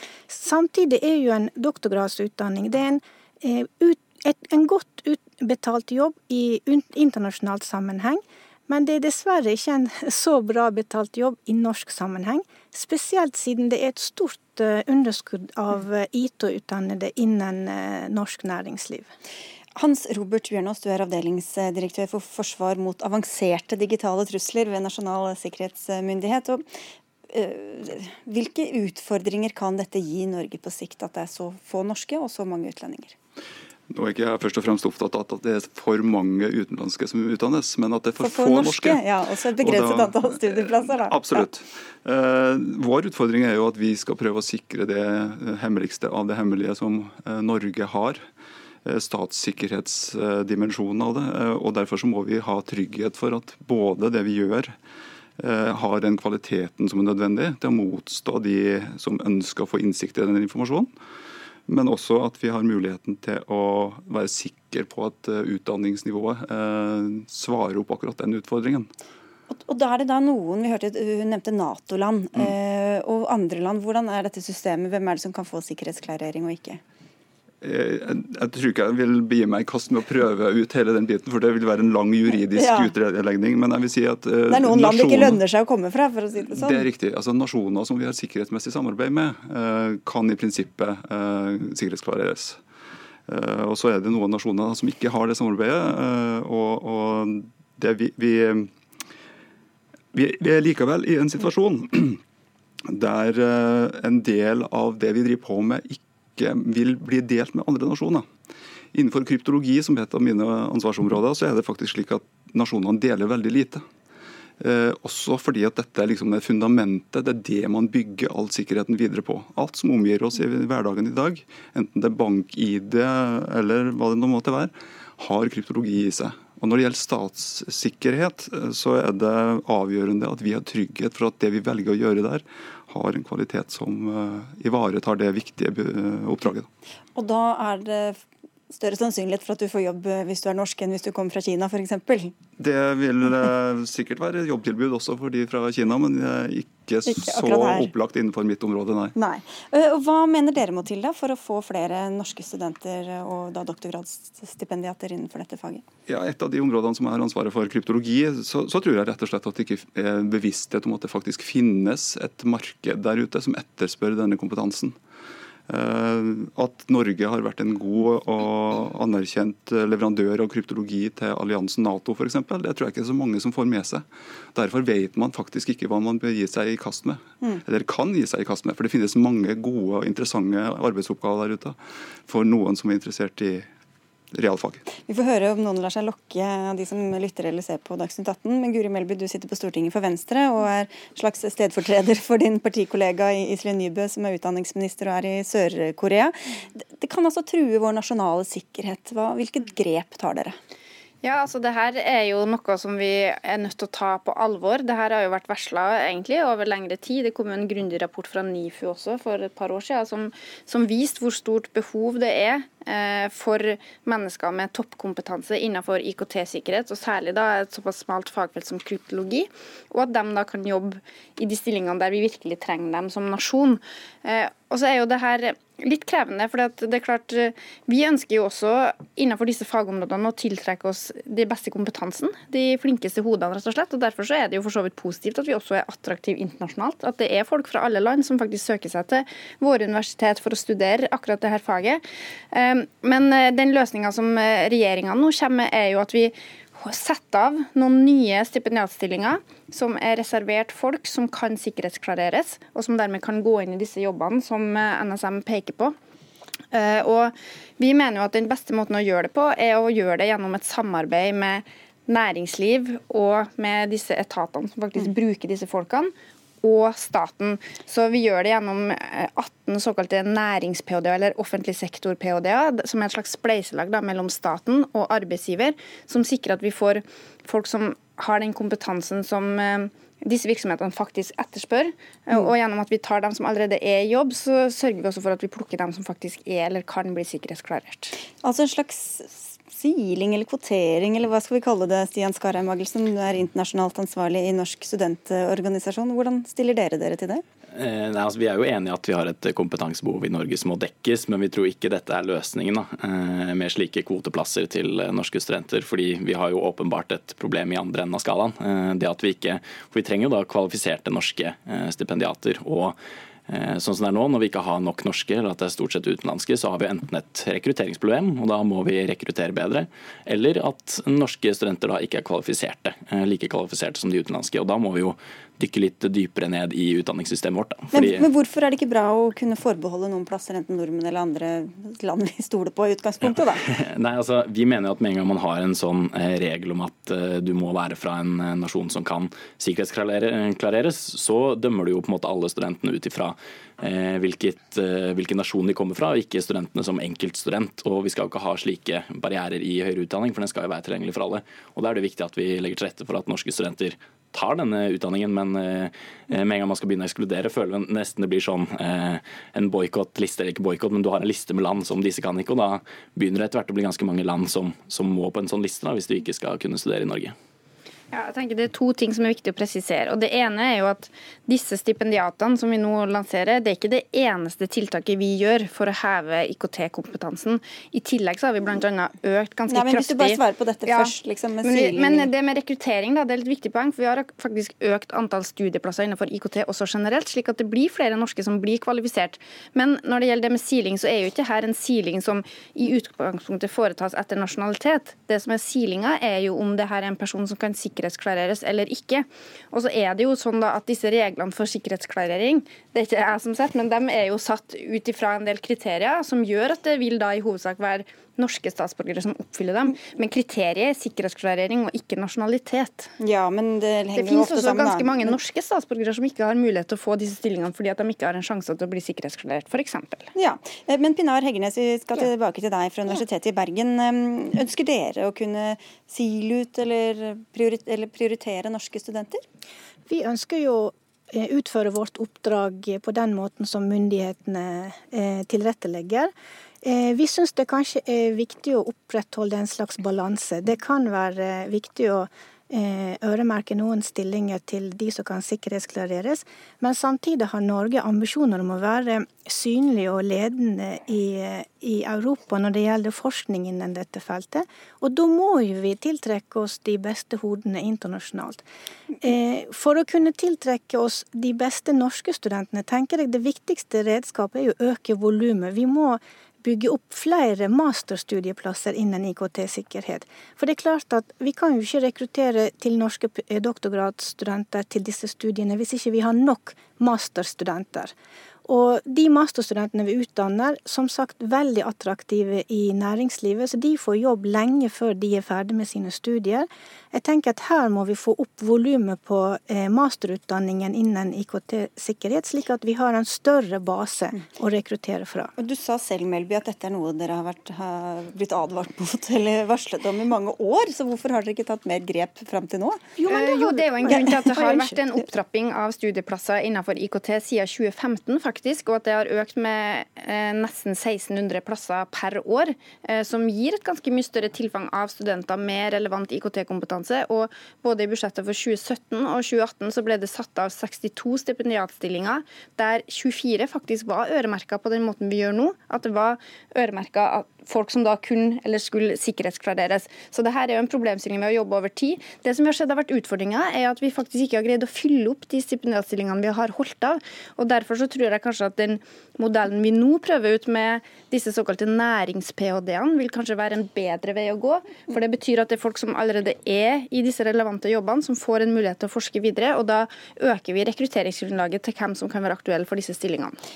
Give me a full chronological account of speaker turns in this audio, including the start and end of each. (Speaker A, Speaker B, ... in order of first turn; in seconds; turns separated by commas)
Speaker A: 0.3-19.1, Speaker B: 19.7-26.6, Speaker B: 27.3-33.1, Speaker C: 33.9-48.2, Speaker B: 38.2-41.5, Speaker C: 48.8-54.8, Speaker C: 55.4-60.9, Speaker C: 61.7-68.9, Speaker B: 69.5-76.8, Speaker C: 77.6-85.4, Speaker B: 82.5-82.9, Speaker B: 84.5-86.8, Speaker C: 86.5-92.6, Speaker C: 93.3-98.7, Speaker C: 100.1-102.2, Speaker C: 102.9-108.3, Speaker C: 108.9-113.8, Speaker C: 114.6-136.7, Speaker B: 137.1-142.3, Speaker C: 142.6-149.1, Speaker B: 147.1-147.9, Speaker B: 149.1-155.8, Speaker C: 156.1-165.0, Speaker C: 165.7-183.7, Speaker C: 184.3-184.8, Speaker B: 185.0-200.6, Speaker D: 201.2-255.9, Speaker D: 256.7-288.1, Speaker B: 288.4-297.4, Speaker E: 297.7-312.9, Speaker E: 313.5-328.2, Speaker B: 327.9-333.6, Speaker E: 333.7-367.3, Speaker D: 368.1-413.1, Speaker B: 379.7-382.3, Speaker B: 413.2-415.4, Speaker D: 414.1-420.3, Speaker B: 420.3-429.4, Speaker A: 430.1-436.3, Speaker A: 436.8-458.6, Speaker A: 459.2-478.1, Speaker A: 478.6-495.5, Speaker B: 495.6-503.1, Speaker A: 503.2-505.3, Speaker D: 503.2-553.6